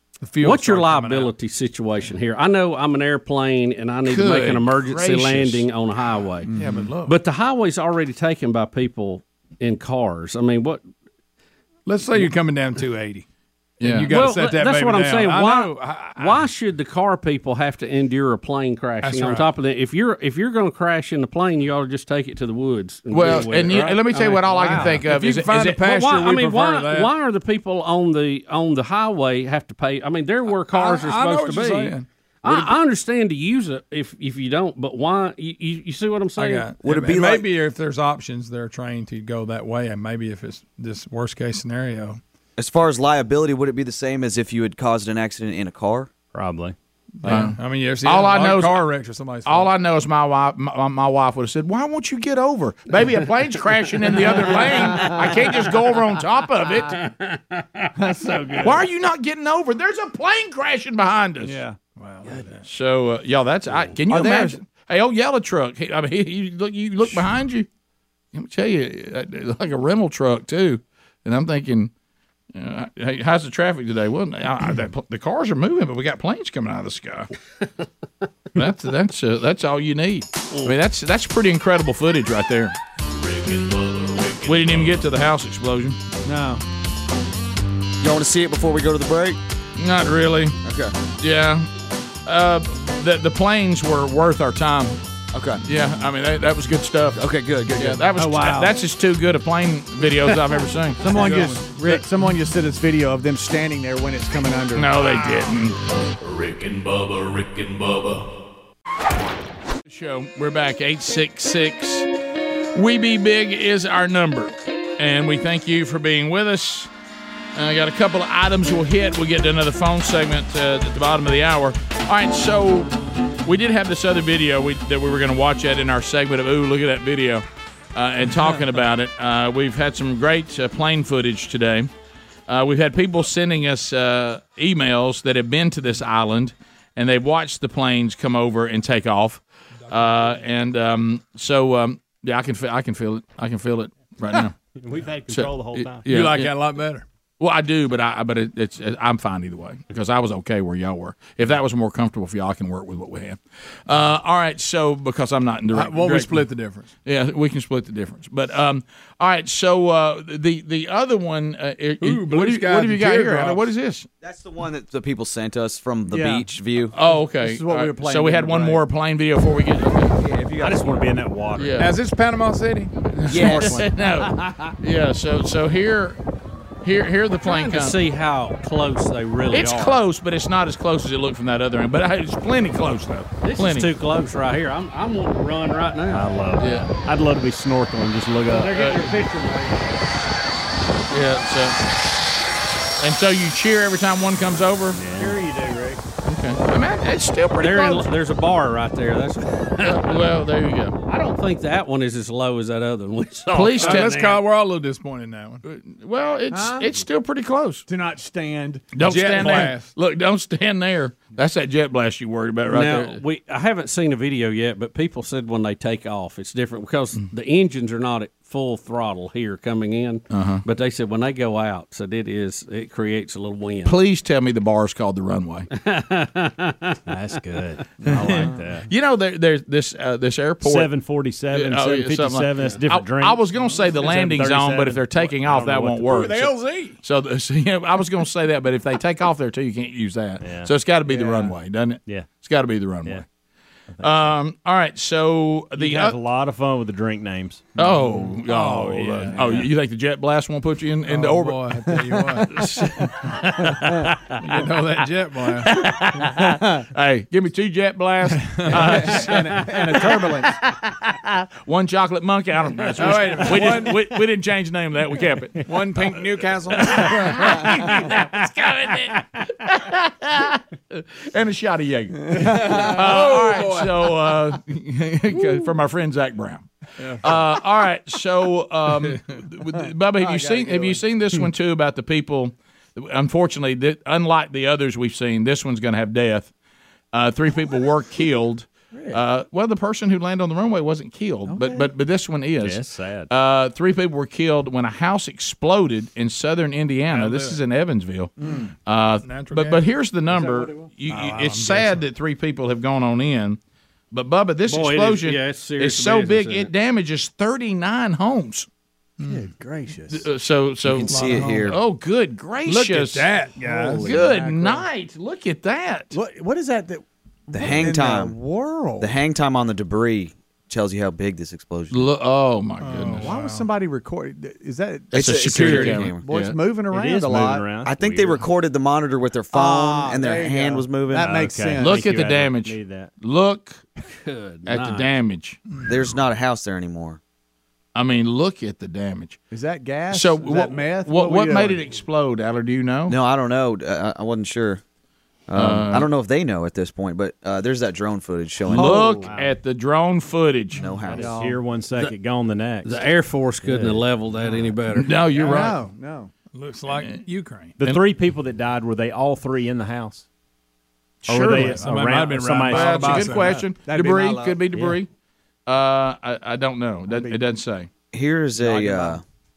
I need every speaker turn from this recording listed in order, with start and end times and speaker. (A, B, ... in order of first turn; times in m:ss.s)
0:00.2-0:01.3 A
0:00.4-0:06.5 B
0:04.0-0:05.6 C
0:06.5-0:06.9 D
0:06.5-0:07.2 A
0:07.1-0:10.8 B
0:11.9-0:13.3 A
0:13.8-0:14.1 C
0:13.8-0:16.5 A
0:14.1-0:24.8 B
0:19.0-0:19.5 A
0:23.1-0:26.0 C
0:24.2-0:27.1 A
0:24.6-0:25.0 D
0:25.8-0:36.7 B
0:30.5-0:32.1 A
0:36.4-0:42.2 A
0:36.8-0:37.5 E
0:42.6-0:46.1 E
0:46.3-0:46.8 F
0:47.2-0:49.7 A
0:47.3-0:48.9 C
0:49.4-0:57.0 C
0:56.9-0:58.6 B
0:58.0-0:58.8 D
0:58.6-1:01.6 C
1:01.4-1:01.8 D
1:02.0-1:02.6 A
1:02.6-1:07.7 C
1:04.1-1:04.6 D
1:08.3-1:11.9 C
1:12.5-1:17.3 C
1:18.6-1:22.8 C
1:23.0-1:25.1 G
1:24.4-1:26.0 C
1:26.2-1:26.6 D
1:28.0-1:29.4 E
1:29.8-1:30.6 C
1:30.6-1:31.0 E
1:31.2-1:31.7 C
1:32.2-1:35.0 C
1:35.3-1:35.6 E
1:35.6-1:41.6 C
1:37.2-1:38.0 E
1:38.1-1:38.8 D
1:41.0-1:45.1 D
1:41.2-1:41.8 A
1:44.8-1:45.8 C
1:46.2-1:48.3 G
1:49.9-1:52.1 C
1:52.8-1:56.9 C
1:57.6-2:02.9 C
2:03.4-2:11.9 C
2:12.5-2:24.6 C
2:20.0-2:20.3 A
2:24.8-2:26.1 F
2:25.3-2:26.5 C
2:26.1-2:27.0 A
2:27.4-2:36.5 C
2:35.7-2:36.9 A
2:37.0-2:44.1 C
2:42.0-2:43.7 A
2:44.2-2:47.0 E
2:46.1-2:46.5 D
2:46.9-2:50.2 C
2:47.0-2:48.8 D
2:50.2-2:51.1 E
2:50.4-2:51.8 F
2:51.6-2:51.9 C
2:51.8-2:53.0 A
2:53.2-2:56.2 C
2:53.3-2:53.9 E
2:53.5-2:53.9 F
2:56.8-2:58.0 C
2:57.4-3:00.0 B
2:59.5-3:03.9 C
3:03.4-3:06.3 B
3:06.1-3:09.0 F
3:06.6-3:06.9 C
3:08.5-3:09.8 B
3:08.6-3:09.2 C
3:11.1-3:11.8 C
3:13.0-3:15.0 C
3:14.9-3:16.0 F
3:16.2-3:18.1 C
3:17.6-3:20.2 B
3:19.8-3:21.0 C
3:21.1-3:24.4 B
3:23.5-3:24.3 C
3:23.7-3:25.6 A
3:25.6-3:27.8 C
3:26.5-3:26.9 D
3:27.9-3:28.9 D
3:29.0-3:29.9 A
3:29.0-3:33.2 C
3:32.7-3:44.0 B
3:40.3-3:40.6 C
3:43.8-3:45.7 C
3:45.8-3:47.0 B
3:47.1-3:48.9 F
3:48.1-3:50.9 C
3:48.2-3:48.6 D
3:50.6-3:56.3 F
3:51.5-4:03.2 C
3:56.1-3:57.0 A
4:00.4-4:01.5 F
4:02.0-4:02.3 F
4:03.9-4:04.2 F
4:04.0-4:06.2 C
4:05.8-4:07.8 F
4:07.8-4:14.6 C
4:07.8-4:09.6 A
4:11.1-4:12.7 A
4:14.4-4:15.7 A
4:15.5-4:25.8 C
4:18.4-4:18.9 A
4:18.7-4:20.5 D
4:23.0-4:24.1 A
4:25.6-4:27.7 A
4:26.8-4:46.5 C
4:32.3-4:34.3 A
4:37.0-4:37.4 A
4:40.1-4:41.0 D
4:47.1-4:58.3 C
4:48.9-4:49.2 D
4:51.5-4:51.9 D
4:52.6-4:53.3 F
4:57.1-4:57.6 A
4:58.4-4:58.7 D
4:58.9-5:03.6 C
4:59.2-4:59.8 A
5:00.3-5:00.8 D
5:01.1-5:02.0 A
5:04.1-5:08.7 C
5:04.7-5:06.7 B
5:09.2-5:09.5 A
5:09.2-5:10.3 D
5:10.1-5:13.3 C
5:10.9-5:11.8 E
5:10.9-5:11.8 A
5:12.6-5:14.2 A
5:13.6-5:14.9 D
5:14.0-5:16.2 C
5:16.1-5:19.2 D
5:17.5-5:18.4 E
5:19.0-5:22.1 E
5:21.9-5:23.3 C
5:22.8-5:23.7 A
5:23.2-5:27.7 D
5:25.1-5:26.3 E
5:25.1-5:26.6 C
5:26.9-5:28.4 F
5:27.8-5:31.4 E
5:29.5-5:32.1 D
5:31.2-5:33.1 F
5:31.8-5:33.9 C
5:34.2-5:35.1 B
5:34.7-5:35.6 C
5:35.8-5:37.2 E
5:38.0-5:39.4 C
5:39.5-5:41.8 D
5:40.1-5:43.2 C
5:43.1-5:44.8 E
5:45.5-5:49.1 E
5:45.6-5:46.1 C
5:48.7-5:51.0 C
5:48.8-5:49.3 D
5:49.0-5:49.6 F
5:50.8-5:51.4 E
5:51.0-5:53.0 F
5:51.1-5:51.6 D
5:52.8-5:55.1 B
5:53.6-5:54.0 F
5:54.9-5:55.8 C
5:55.3-5:56.3 D
5:56.5-5:57.8 A
5:57.8-6:00.3 F
6:01.3-6:01.9 C
6:01.3-6:03.4 F
6:01.3-6:03.7 A
6:02.7-6:05.1 C
6:03.1-6:04.9 D
6:05.7-6:07.9 C
6:07.1-6:07.4 D
6:08.1-6:09.2 E
6:08.6-6:09.2 D